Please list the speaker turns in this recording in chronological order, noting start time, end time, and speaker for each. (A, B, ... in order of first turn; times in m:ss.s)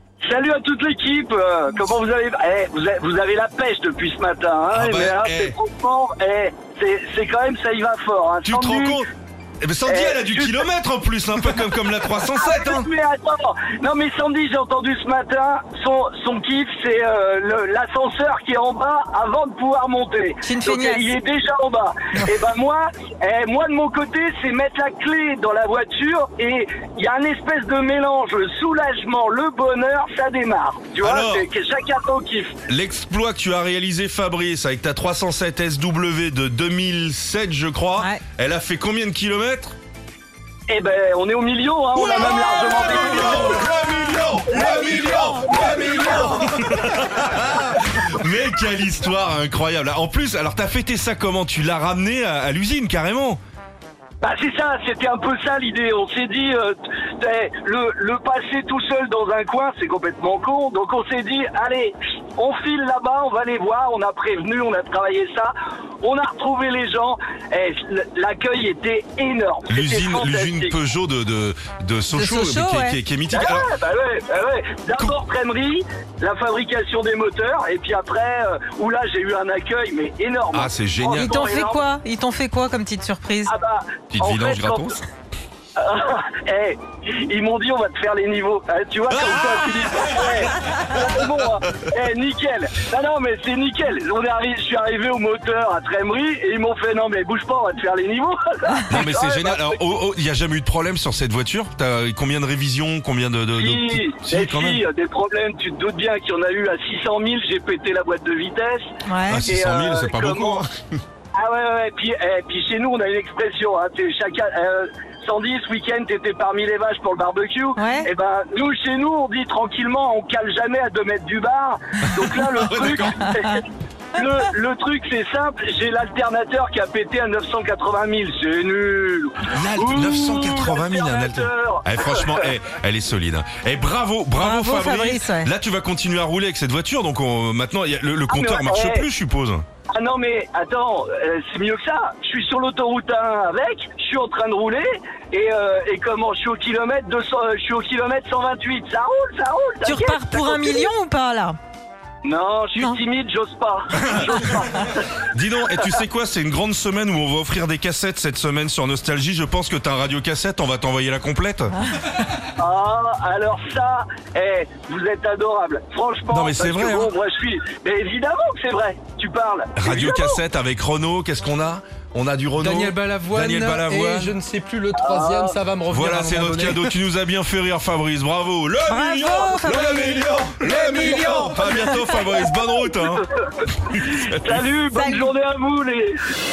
0:00.2-0:09.0 A
0:04.7-0:05.6 B
0:08.4-0:09.1 B
0:09.6-0:12.9 B
0:09.8-0:10.6 A
0:12.3-0:32.6 A
0:20.4-0:21.1 C
0:31.0-0:31.5 B
0:32.7-0:39.7 B
0:38.0-0:38.2 C
0:40.7-0:43.7 A
0:42.0-0:53.4 B
0:42.0-0:45.4 C
0:44.5-0:46.4 A
0:54.2-1:10.8 A
1:09.7-1:13.7 B
1:12.1-1:13.0 C
1:13.3-1:21.8 A
1:20.5-1:21.3 B
1:21.1-1:23.5 C
1:23.4-1:25.0 A
1:24.1-1:25.0 B
1:25.8-1:39.8 A
1:29.1-1:30.5 B
1:38.9-1:44.8 B
1:43.5-1:48.9 A
1:49.0-1:49.5 C
1:49.3-1:50.7 B
1:49.4-1:50.6 A
1:51.3-2:12.5 A
1:57.8-1:58.1 C
2:02.5-2:03.3 B
2:03.2-2:03.6 C
2:09.4-2:19.6 B
2:14.4-2:15.5 C
2:18.3-2:19.1 A
2:19.9-2:30.9 A
2:29.8-2:31.6 C
2:32.2-2:35.9 A
2:34.0-2:34.3 B
2:35.3-2:41.7 B
2:42.6-2:50.4 A
2:46.3-2:47.1 B
2:49.8-2:54.4 B
2:52.6-2:56.8 D
2:54.9-2:55.6 A
2:55.9-3:03.2 B
2:58.9-3:02.4 C
3:03.4-3:06.2 A
3:03.8-3:04.6 B
3:04.9-3:05.3 C